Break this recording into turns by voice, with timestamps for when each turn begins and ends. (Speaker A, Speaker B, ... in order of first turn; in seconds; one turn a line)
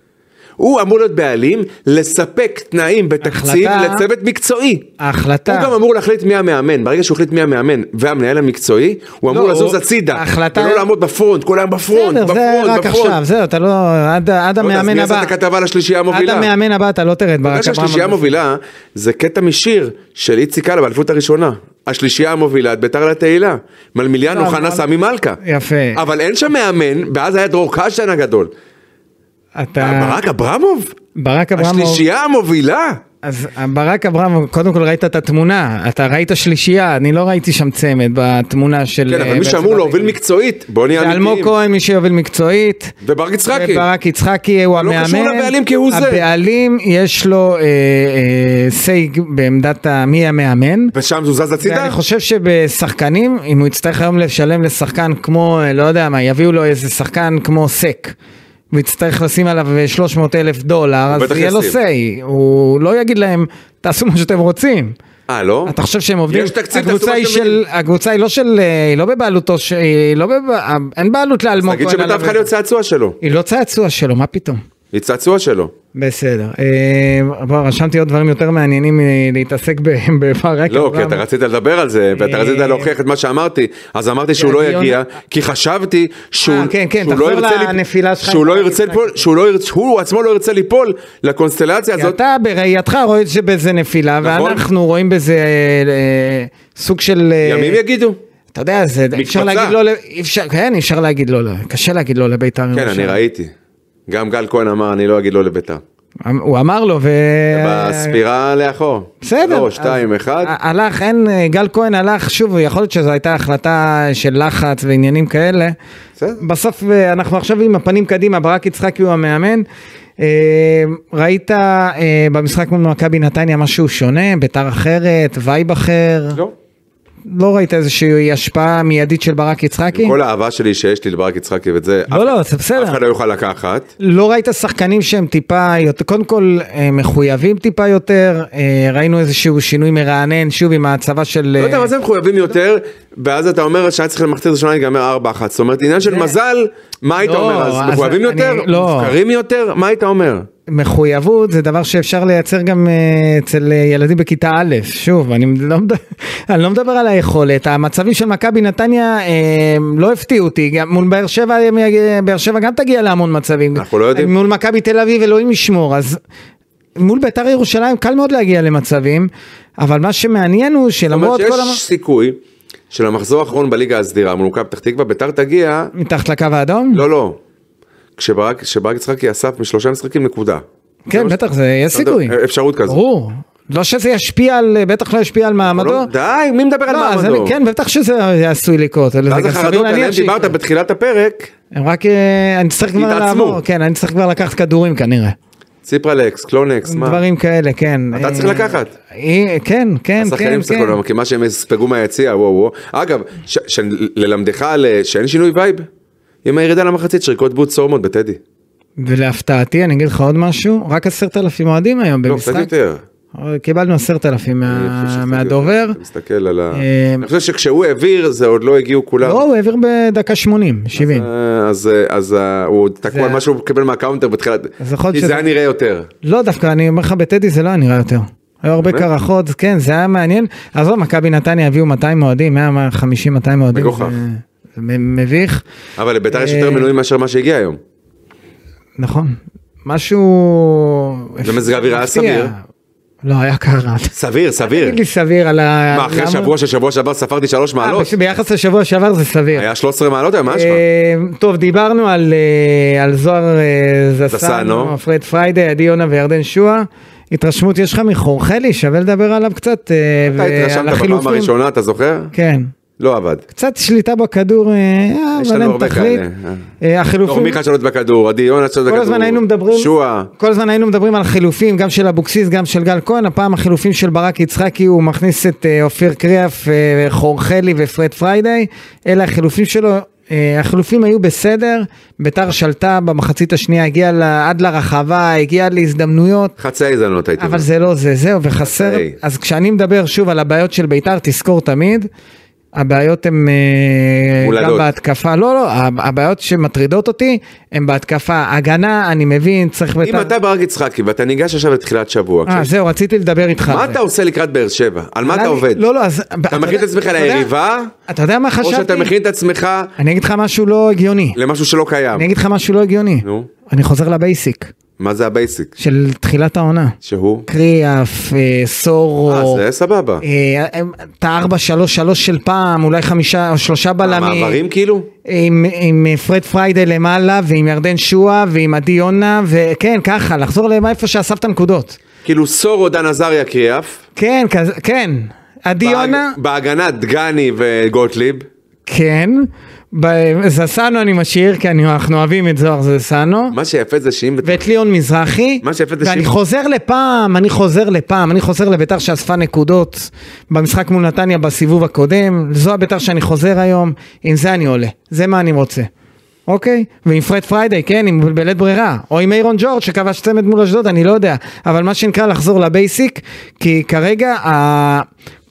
Speaker A: 0.6-4.9
Speaker B: 3.2-4.1
Speaker B: 5.0-5.7
Speaker A: 5.5-13.2
Speaker B: 9.3-10.9
Speaker B: 11.9-15.3
Speaker A: 14.6-16.5
Speaker B: 16.1-18.3
Speaker A: 17.4-25.4
Speaker B: 24.3-24.8
Speaker B: 25.4-26.0
Speaker A: 25.9-28.5
Speaker B: 29.6-30.2
Speaker A: 29.8-30.9
Speaker B: 31.1-32.0
Speaker A: 31.6-33.0
Speaker B: 33.2-40.1
Speaker A: 39.1-41.5
Speaker B: 40.9-43.0
Speaker A: 43.0-43.9
Speaker B: 43.5-50.9
Speaker A: 44.8-46.2
Speaker A: 50.9-52.0
Speaker B: 51.6-58.1
Speaker B: 58.7-65.0
Speaker A: 61.1-61.8
Speaker A: 65.3-65.7
Speaker B: 65.7-72.5
Speaker A: 66.3-67.6
Speaker A: 71.6-73.2
Speaker B: 73.2-74.6
Speaker A: 74.9-75.7
Speaker B: 76.0-81.2
Speaker A: 80.7-92.2
Speaker B: 82.2-82.9
Speaker B: 84.4-85.0
Speaker B: 86.4-89.2
Speaker B: 92.0-97.8
Speaker A: 94.2-94.6
Speaker A: 97.4-98.2
Speaker B: 98.5-103.2
Speaker A: 99.2-99.8
Speaker A: 102.7-103.5
Speaker A: 104.1-105.8
Speaker B: 106.2-108.2
Speaker A: 107.5-110.5
Speaker B: 109.2-115.8
Speaker B: 116.4-119.7
Speaker B: 120.2-126.4
Speaker B: 127.3-130.2
Speaker A: 129.9-133.9
Speaker B: 132.1-133.0
Speaker B: 134.0-141.9
Speaker A: 141.6-150.5
Speaker B: 146.1-146.3
Speaker B: 147.2-149.1
Speaker B: 150.7-166.2
Speaker A: 163.8-164.3
Speaker B: 167.0-171.8
Speaker A: 171.1-172.4
Speaker A: 172.9-175.9
Speaker B: 175.9-177.0
Speaker A: 176.9-177.4
Speaker A: 178.2-181.4
Speaker B: 181.1-182.3
Speaker A: 181.9-183.0
Speaker B: 182.9-186.1
Speaker A: 185.6-187.6
Speaker B: 186.9-190.5
Speaker A: 189.3-191.5
Speaker B: 191.7-195.4
Speaker A: 192.9-193.6
Speaker A: 195.8-197.2
Speaker B: 196.8-201.0
Speaker A: 198.1-198.9
Speaker A: 200.2-205.9
Speaker A: 206.4-208.4
Speaker B: 209.0-212.7
Speaker A: 212.3-213.0
Speaker B: 213.3-216.0
Speaker A: 214.7-219.4
Speaker B: 216.7-217.3
Speaker B: 219.2-221.3
Speaker A: 220.9-226.1
Speaker B: 223.1-223.4
Speaker B: 224.8-225.4
Speaker B: 226.2-235.6
Speaker A: 228.8-229.1
Speaker A: 233.7-234.1
Speaker A: 236.0-237.8
Speaker B: 236.3-236.9
Speaker B: 239.0-242.6
Speaker A: 241.4-242.5
Speaker B: 243.2-246.5
Speaker A: 244.1-245.0
Speaker A: 245.9-248.1
Speaker B: 247.8-249.7
Speaker A: 249.6-250.8
Speaker B: 250.5-261.5
Speaker A: 254.3-254.9
Speaker A: 260.3-262.3
Speaker B: 262.3-262.7
Speaker A: 263.0-263.4
Speaker B: 263.5-266.2
Speaker A: 265.4-266.6
Speaker B: 266.8-267.6
Speaker A: 267.3-270.3
Speaker B: 268.9-286.6
Speaker A: 286.6-287.7
Speaker B: 287.4-292.1
Speaker A: 288.6-289.2
Speaker B: 292.8-300.3
Speaker A: 294.4-294.9
Speaker A: 300.0-302.7
Speaker B: 302.5-304.0
Speaker A: 303.7-305.8
Speaker B: 305.2-307.5
Speaker A: 306.5-307.9
Speaker B: 308.1-309.1
Speaker A: 308.6-309.9
Speaker B: 310.0-311.4
Speaker A: 311.4-312.3
Speaker B: 312.1-314.7
Speaker A: 313.2-313.5
Speaker A: 315.0-315.7
Speaker B: 315.8-317.0
Speaker A: 317.0-317.5
Speaker B: 317.5-319.6
Speaker A: 319.3-320.2
Speaker B: 320.2-324.6
Speaker A: 324.0-325.1
Speaker B: 325.2-332.0
Speaker A: 332.2-334.0
Speaker B: 334.2-336.4
Speaker A: 335.8-338.5
Speaker B: 338.9-343.6
Speaker A: 343.5-344.6
Speaker B: 344.4-355.9
Speaker A: 345.6-346.3
Speaker B: 356.5-365.1